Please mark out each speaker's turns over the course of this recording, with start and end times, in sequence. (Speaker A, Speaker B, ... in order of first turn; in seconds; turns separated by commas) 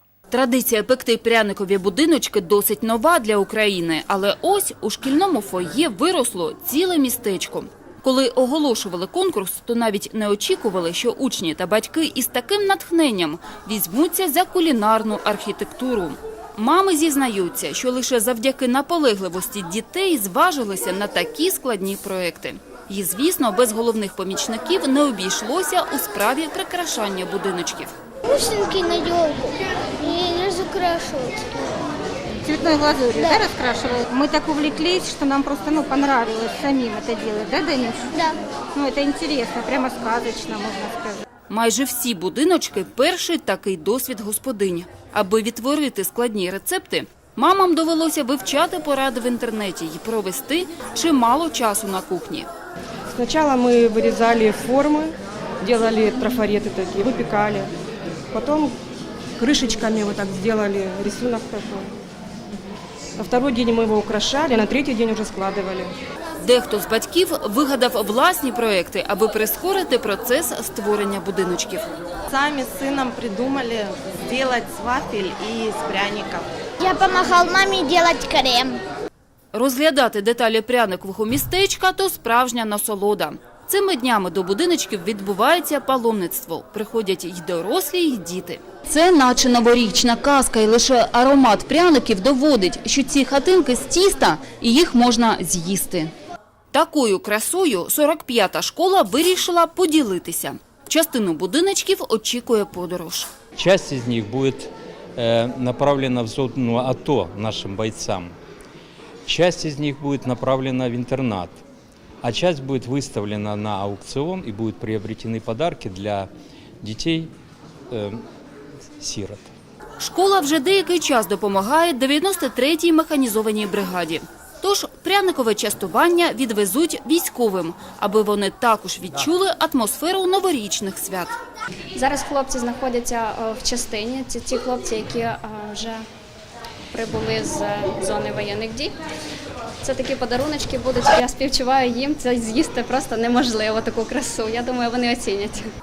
Speaker A: 0.3-27.9, Speaker B: 28.2-31.8, Speaker C: 32.4-38.0, Speaker B: 33.1-33.5, Speaker B: 38.1-38.4, Speaker C: 38.7-41.2, Speaker A: 41.5-52.5, Speaker D: 53.1-57.7, Speaker D: 58.3-58.7, Speaker D: 59.4-61.9, Speaker D: 63.2-65.9, Speaker A: 66.4-71.9, Speaker E: 72.3-76.5, Speaker B: 76.8-78.8, Speaker A: 79.5-96.1, Speaker A: 96.7-103.3, Speaker F: 103.5-108.3, Speaker F: 109.2-111.6, Speaker F: 112.2-116.3, Speaker F: 116.8-117.3, Speaker F: 117.9-118.2, Speaker F: 119.0-119.5, Speaker A: 120.0-131.3, Speaker G: 131.9-136.1, Speaker G: 136.9-138.9, Speaker G: 139.8-145.6